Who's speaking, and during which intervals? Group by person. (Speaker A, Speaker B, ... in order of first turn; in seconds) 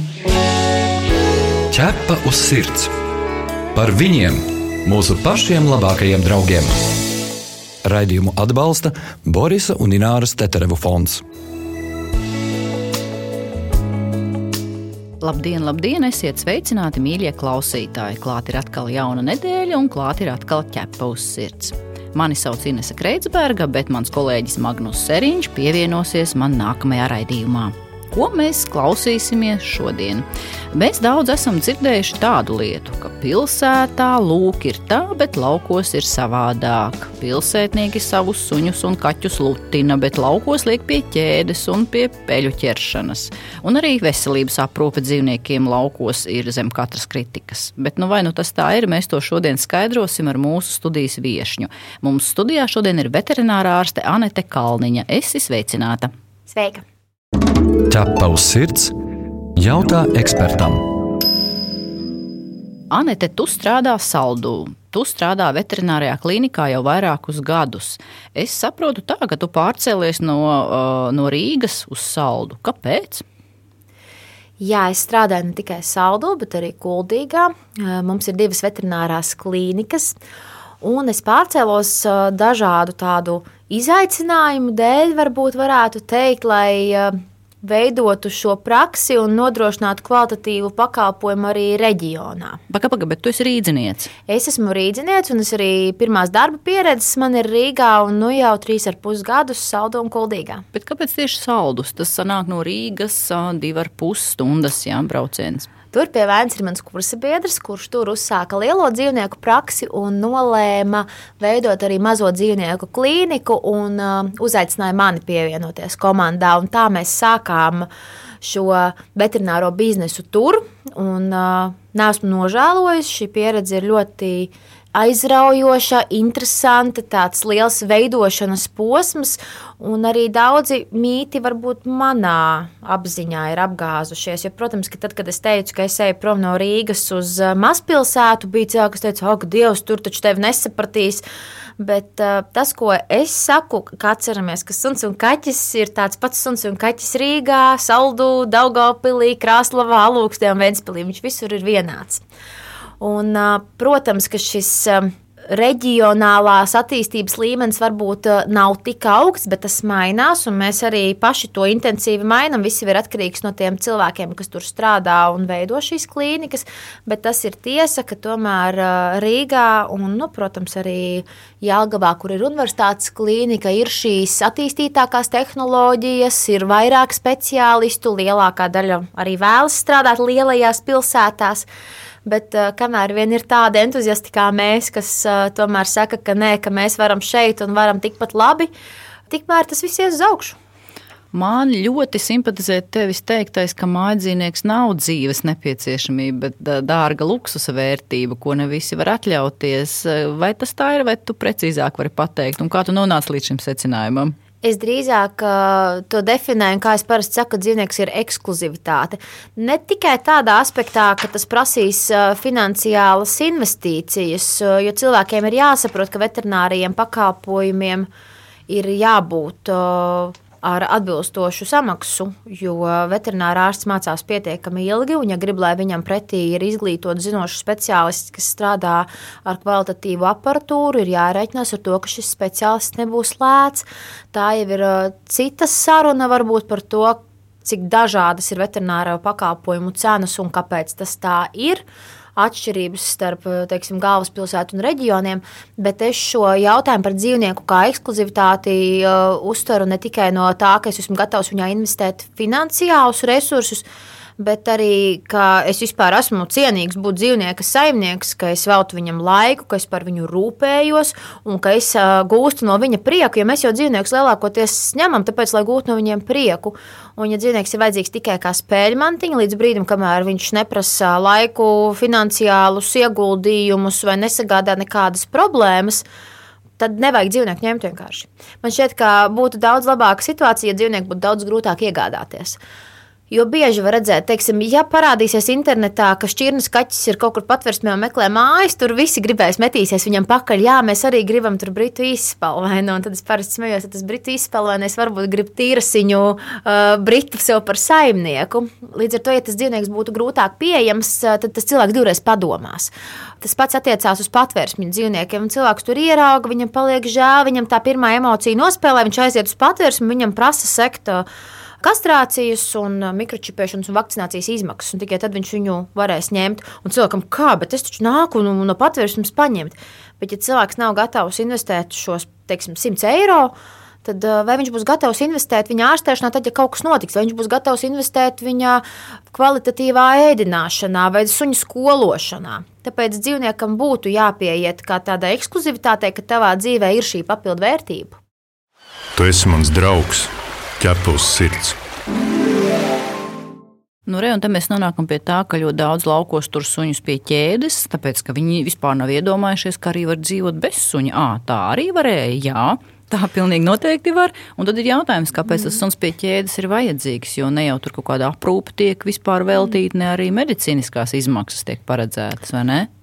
Speaker A: 1.7-2.9, 3.7-6.9, 7.8-11.2, 57.9-58.9, 59.6-60.9
Speaker B: 15.2-56.1, 62.9-73.2, 92.7-94.1, 100.7-105.7, 191.3-204.3, 344.1-362.9
Speaker C: 56.5-56.8, 74.6-80.2, 80.8-92.6, 94.3-100.7, 105.9-117.9, 118.4-141.2, 141.8-152.2, 153.0-181.7, 182.2-188.7, 189.3-190.6, 204.6-218.1, 218.7-241.8, 242.4-253.8, 254.4-276.1, 276.8-282.6, 283.3-311.3, 311.8-323.5, 324.0-338.2
Speaker D: 339.2-341.8